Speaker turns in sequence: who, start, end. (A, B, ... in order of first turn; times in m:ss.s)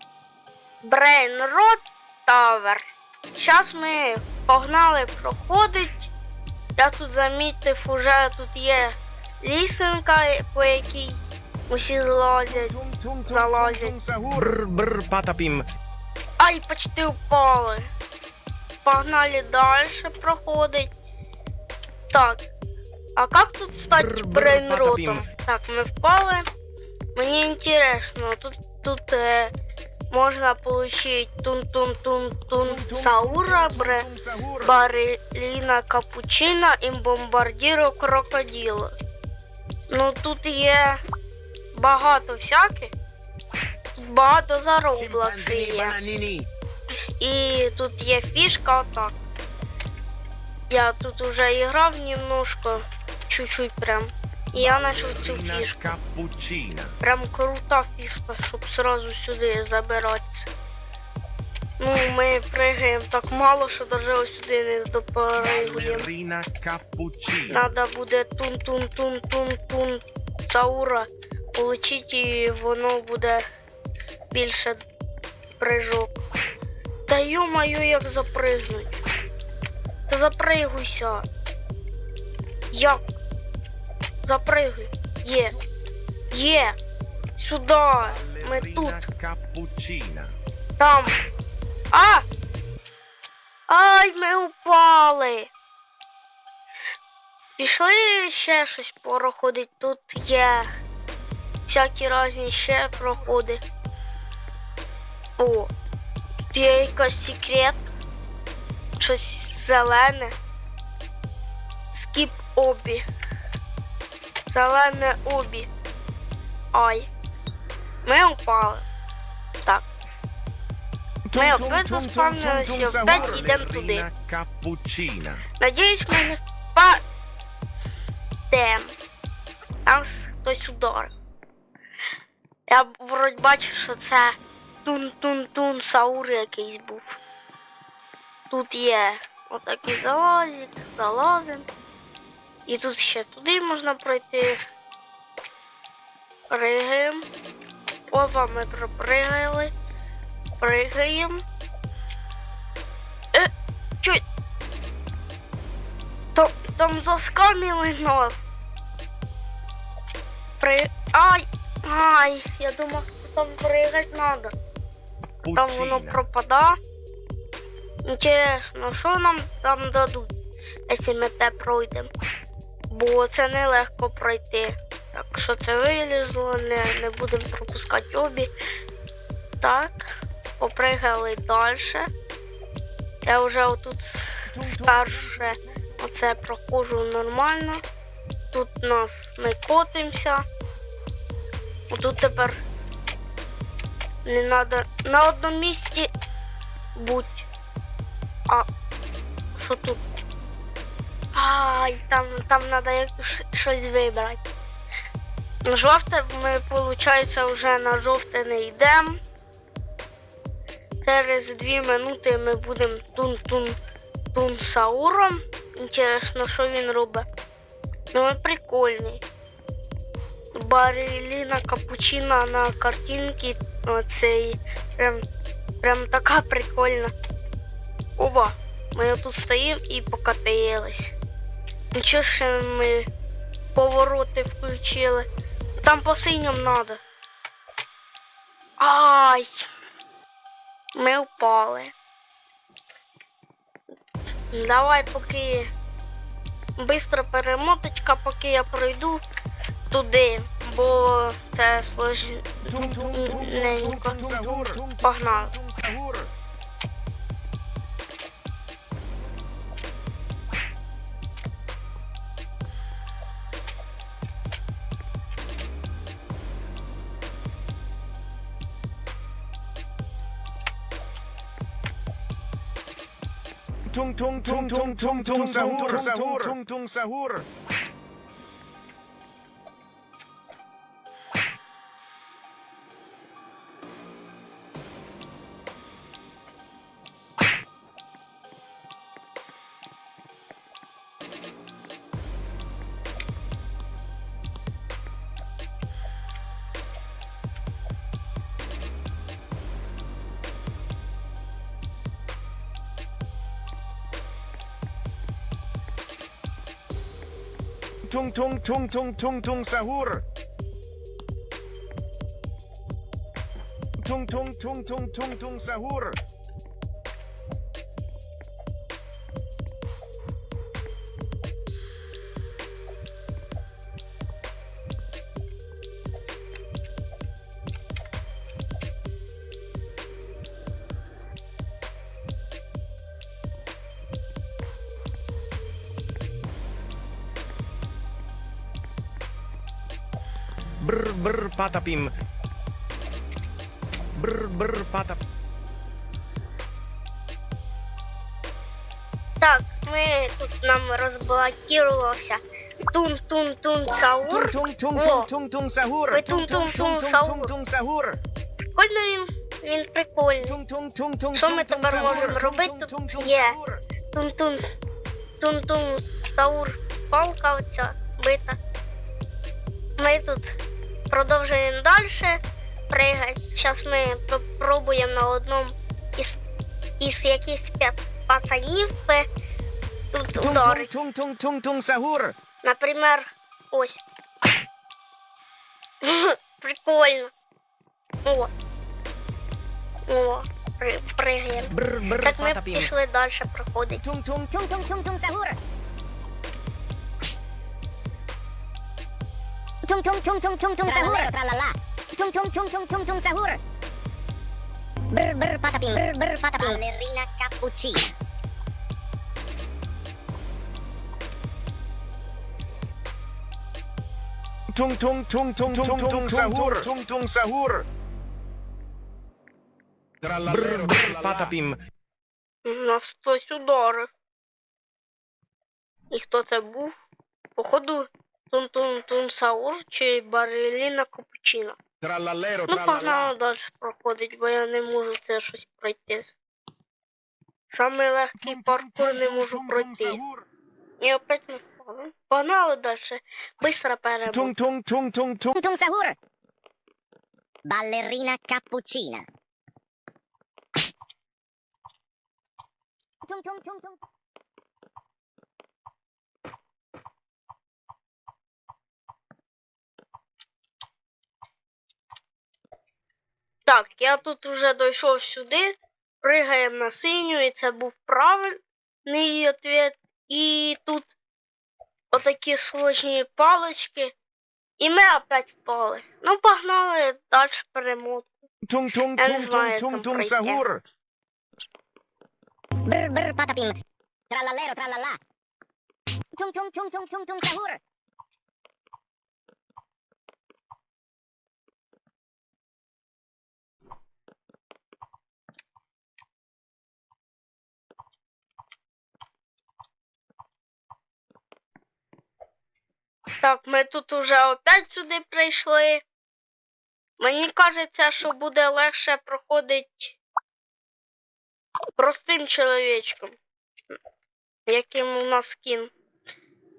0:00.8-0:06.1 A
0:06.8-0:14.0 A
0:12.5-0:14.5 B
0:14.3-0:15.6 C
0:16.4-0:17.9 A
0:18.8-0:20.9 A
0:22.1-0:22.4 A
0:23.2-0:26.4 A
0:24.1-0:25.2 C
0:27.1-0:29.5 A
0:30.1-0:34.1 A
0:32.6-0:34.8 B
0:34.6-0:38.9 A
0:39.9-0:41.0 A
0:41.7-0:42.9 A
0:44.0-0:46.0 A
0:45.0-0:46.5 C
0:47.2-0:49.1 A
0:50.7-0:55.8 A
0:54.6-0:56.9 C
0:54.7-0:55.1 B
0:57.0-1:00.5 A
1:01.8-1:06.1 A
1:05.4-1:07.6 C
1:07.5-1:13.4 A
1:14.3-1:14.8 A
1:15.6-1:16.1 A
1:17.1-1:19.0 A
1:20.1-1:21.2 A
1:22.7-1:23.0 A
1:24.2-1:25.6 A
1:26.3-1:26.8 A
1:27.4-1:29.0 A
1:28.1-1:30.3 C
1:30.8-1:31.2 A
1:31.9-1:32.2 A
1:33.7-1:35.5 A
1:37.6-1:40.7 A
1:41.6-1:43.6 A
1:42.9-1:43.3 B
1:45.4-1:45.7 A
1:46.5-1:47.8 A
1:49.0-1:50.3 A
1:51.9-1:53.0 A
1:54.5-1:55.7 A
1:56.7-1:57.1 A
1:58.0-1:58.8 A
2:01.3-2:03.6 B
2:01.3-2:04.1 A
2:03.0-2:05.4 C
2:05.6-2:07.0 A
2:08.5-2:08.9 A
2:09.8-2:11.1 A
2:12.7-2:17.2 A
2:18.5-2:21.7 A
2:22.6-2:24.6 A
2:26.5-2:27.2 A
2:28.1-2:29.7 A
2:30.6-2:31.4 A
2:36.3-2:38.4 A
2:40.6-2:44.5 A
2:45.4-2:46.2 C
2:45.5-2:46.8 A
2:48.0-2:50.3 A
2:50.9-2:52.1 A
2:52.9-2:58.5 A
2:59.6-3:02.1 A
3:03.2-3:07.8 A
3:04.5-3:05.6 B
3:08.5-3:10.4 A
3:11.9-3:12.6 A
3:14.2-3:16.1 A
3:17.0-3:17.5 A
3:19.6-3:20.0 A
3:21.3-3:24.4 A
3:25.6-3:29.2 A
3:31.0-3:33.8 A
3:34.3-3:37.2 A
3:38.1-3:39.2 A
3:40.5-3:45.2 A
3:45.8-3:47.1 A
3:48.2-3:51.1 A
3:51.9-3:53.1 A
3:53.7-3:55.2 A
3:55.8-3:57.0 A
3:58.8-3:59.6 A
4:01.0-4:01.9 A
4:04.5-4:05.7 A
4:06.8-4:09.2 A
4:09.9-4:14.5 A
4:12.6-4:16.3 B
4:15.0-4:15.6 A
4:33.9-4:37.4 B
4:35.2-4:36.5 C
5:08.0-5:10.2 B
5:14.0-5:16.2 B
5:40.8-5:42.1 C
5:44.2-5:45.2 C
5:49.4-5:55.3 A
5:54.3-5:58.2 B
5:56.1-5:57.5 A
5:58.7-6:00.6 A
6:00.4-6:03.8 B
6:01.3-6:03.6 A
6:04.1-6:04.6 A
6:05.4-6:08.6 A
6:10.0-6:10.6 A
6:11.1-6:16.4 A
6:17.0-6:19.3 A
6:20.1-6:20.9 A
6:20.4-6:22.3 B
6:22.6-6:24.0 A
6:26.0-6:27.3 A
6:28.2-6:28.5 A
6:30.1-6:34.0 A
6:31.7-6:32.9 C
6:34.5-6:35.6 D
6:39.8-6:43.6 D
6:45.1-6:48.1 D
6:54.7-6:57.8 B
6:55.7-6:56.8 C
7:00.2-7:01.5 B
7:00.4-7:01.8 C
7:02.6-7:04.1 A
7:06.1-7:06.9 A
7:07.6-7:11.8 A
7:12.0-7:13.3 B
7:12.7-7:16.3 A
7:17.7-7:20.2 A
7:18.4-7:20.4 B
7:21.0-7:24.6 A
7:24.3-7:25.5 B
7:25.5-7:26.2 D
7:27.6-7:29.2 D
7:33.2-7:34.0 D
7:43.6-7:51.1 A
7:52.1-7:54.1 A
7:54.8-7:58.3 A
7:58.6-8:00.8 B
7:59.2-8:00.6 A
8:02.8-8:03.7 D
8:04.3-8:05.2 D
8:06.3-8:07.8 D
8:23.4-8:26.0 A
8:27.2-8:30.2 A
8:32.0-8:33.4 A
8:34.7-8:35.9 A